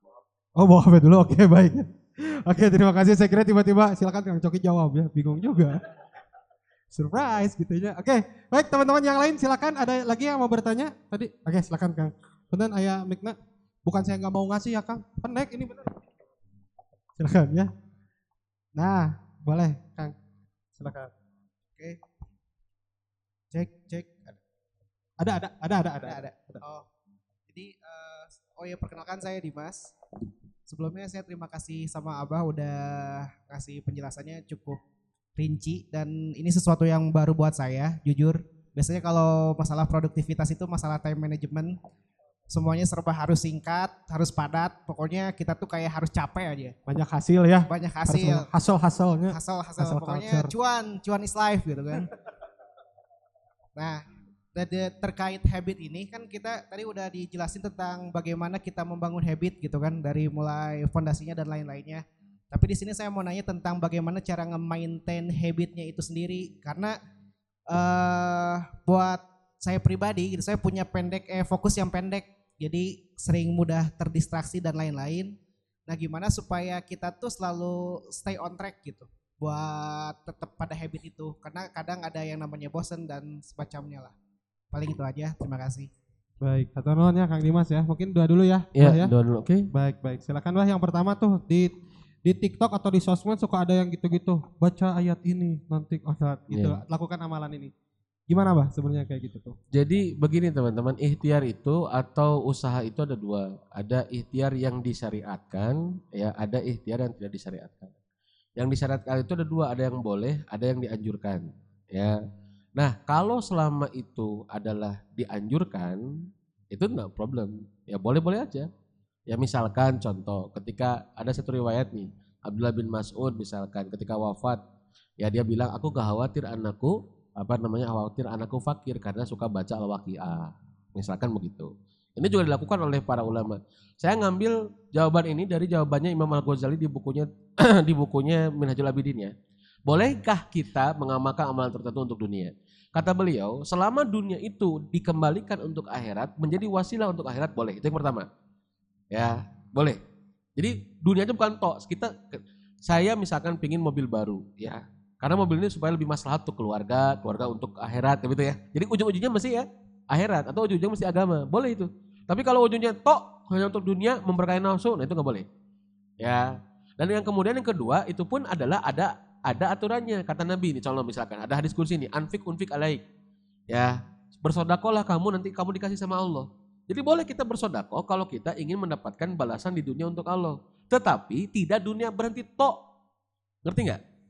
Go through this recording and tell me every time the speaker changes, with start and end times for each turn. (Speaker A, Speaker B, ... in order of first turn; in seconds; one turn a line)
Speaker A: 0.6-5.8
Speaker A: 6.9-15.9
Speaker A: 17.2-17.7
Speaker A: 18.8-20.1
Speaker A: 20.8-21.1
Speaker A: 23.5-24.3
Speaker A: 25.2-26.6
Speaker B: 26.1-26.9
Speaker B: 27.5-29.9
Speaker B: 30.7-34.8
Speaker B: 35.4-41.7
Speaker B: 42.5-46.8
Speaker A: 46.9-50.5
Speaker B: 47.7-48.5
Speaker B: 49.3-52.1
Speaker B: 54.5-67.0
Speaker B: 67.7-75.3
Speaker B: 75.9-84.1
Speaker B: 84.7-85.9
Speaker A: 86.4-89.1
Speaker C: 88.8-89.7
Speaker A: 89.7-91.7
Speaker A: 92.2-97.7
Speaker C: 96.5-96.8
Speaker A: 98.3-99.5
Speaker C: 99.7-107.9
Speaker C: 108.6-112.2
Speaker C: 112.8-116.0
Speaker C: 116.7-118.7
Speaker C: 119.3-124.6
Speaker C: 125.2-139.3
Speaker C: 139.9-148.3
Speaker C: 149.1-150.0
Speaker C: 150.6-165.5
Speaker C: 166.2-173.0
Speaker C: 173.7-182.8
Speaker C: 183.7-184.0